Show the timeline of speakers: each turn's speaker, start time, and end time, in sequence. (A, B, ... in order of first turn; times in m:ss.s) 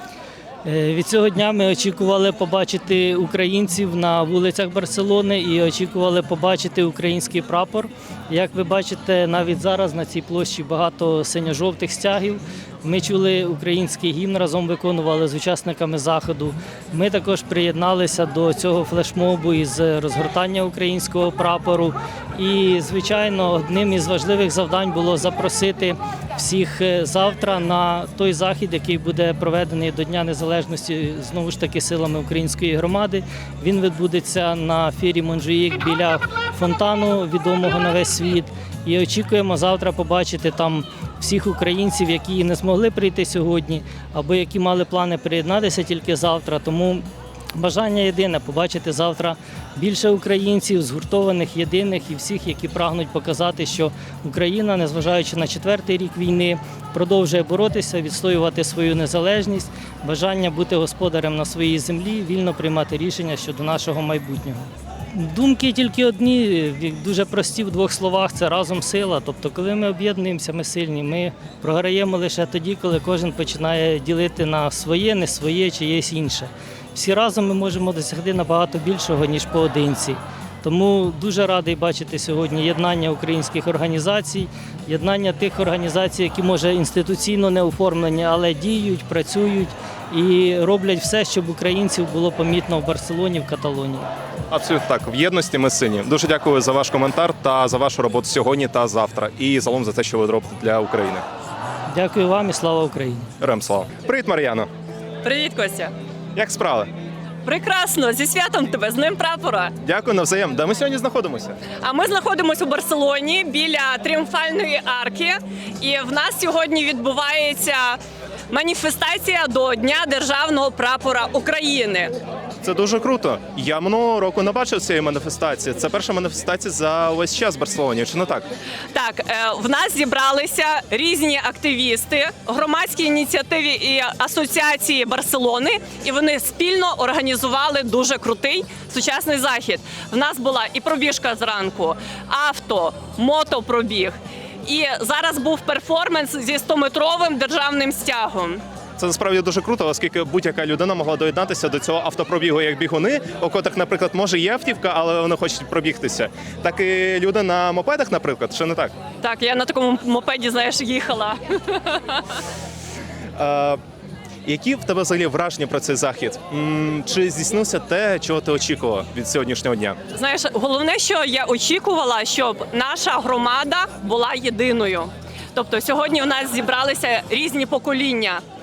0:00.6-1:34.1 A
1:34.5-1:41.2 B
1:41.9-1:43.3 A
1:43.4-1:44.7 B
1:45.2-1:45.9 C
1:46.3-1:46.9 B
1:47.4-1:49.7 C
1:49.8-1:51.6 B
1:51.8-1:58.0 C
1:58.5-2:02.1 C
2:02.6-2:08.4 B
2:08.9-2:28.6 C
2:29.0-2:38.9 B
2:39.2-2:42.2 C
2:43.4-2:43.8 B
2:44.4-2:50.0 B
2:50.1-2:58.4 C